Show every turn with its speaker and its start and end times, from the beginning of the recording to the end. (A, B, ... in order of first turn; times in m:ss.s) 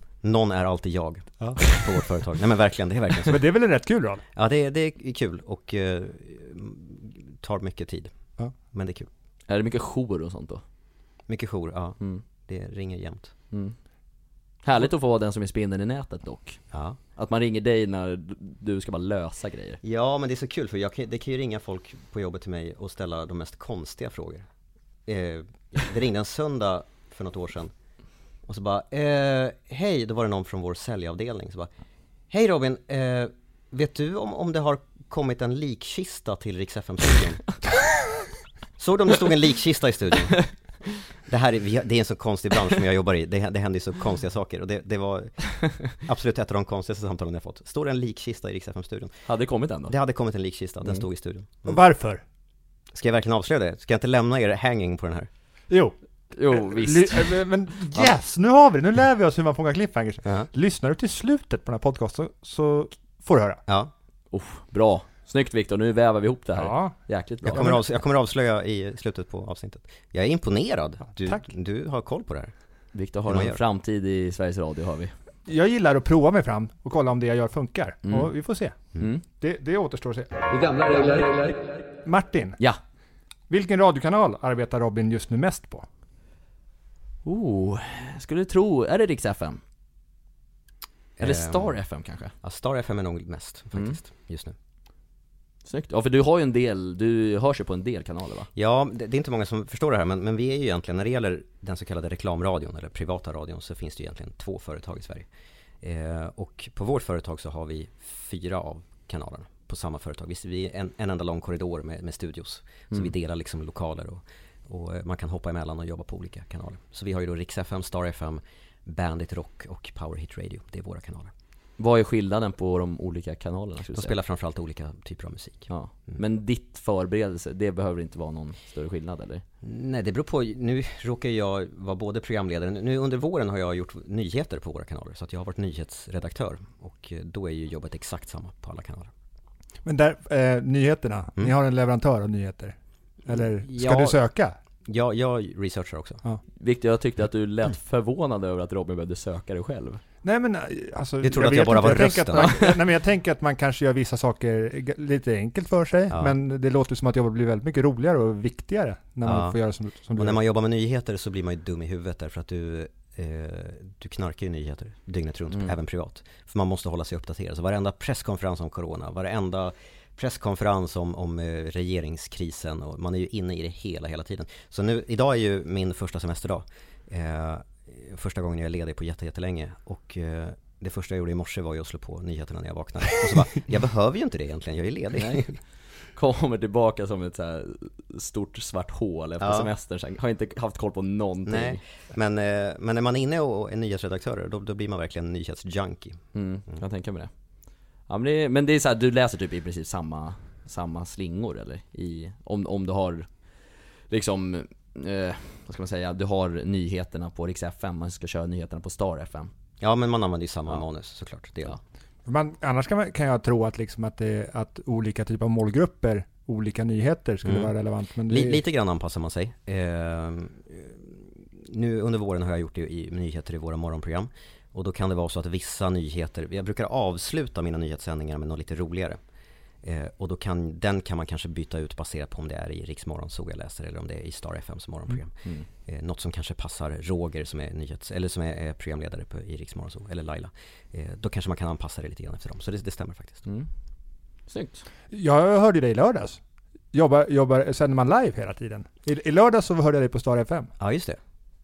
0:00.2-0:03.4 A
0:01.4-0:01.8 B
0:03.2-0:04.2 B
0:04.4-0:09.1 A
0:09.5-0:10.6 C
0:11.3-0:13.3 A
0:13.5-0:13.8 C
0:14.6-0:19.8 C
0:16.7-0:17.0 A
0:19.8-0:24.5 A
0:25.0-0:27.7 A
0:28.4-0:31.7 A
0:32.3-0:37.8 A
0:38.8-0:40.6 A
0:41.3-0:49.3 A
0:49.3-0:49.9 C
0:49.9-0:51.8 A
0:51.6-0:52.2 B
0:52.9-0:55.3 A
0:55.7-1:03.6 B
0:56.3-0:57.3 C
1:03.7-1:03.9 A
1:04.3-1:07.6 C
1:06.5-1:07.8 B
1:07.5-1:13.6 A
1:11.1-1:11.4 B
1:12.9-1:15.1 C
1:15.4-1:20.3 B
1:18.0-1:19.2 C
1:22.0-1:22.6 B
1:23.5-1:25.9 B
1:27.2-1:29.6 C
1:31.2-1:31.9 A
1:31.2-1:32.3 C
1:32.4-1:34.5 A
1:33.7-1:34.0 C
1:35.6-1:38.5 C
1:38.5-1:45.3 A
1:45.8-2:01.3 A
2:01.8-2:04.2 C
2:03.9-2:06.2 A
2:05.7-2:09.4 C
2:09.6-2:19.1 A
2:19.8-2:24.6 B
2:23.3-2:24.2 A
2:24.8-2:26.2 A
2:26.6-2:30.0 C
2:30.2-2:40.4 B
2:31.2-2:32.6 A
2:32.4-2:32.6 C
2:36.1-2:36.3 A
2:39.2-2:39.6 A
2:40.1-3:05.6 A
3:05.2-3:11.8 C
3:09.4-3:09.7 A
3:11.4-3:16.8 A
3:16.3-3:17.3 C
3:18.0-3:29.5 C
3:29.8-3:31.8 A
3:32.2-3:38.6 B
3:37.4-3:37.7 A
3:38.3-3:49.2 A
3:49.8-4:03.4 A
4:03.4-4:03.7 C
4:04.5-4:04.8 C
4:05.1-4:06.4 B
4:06.9-4:10.7 B
4:10.8-4:11.2 A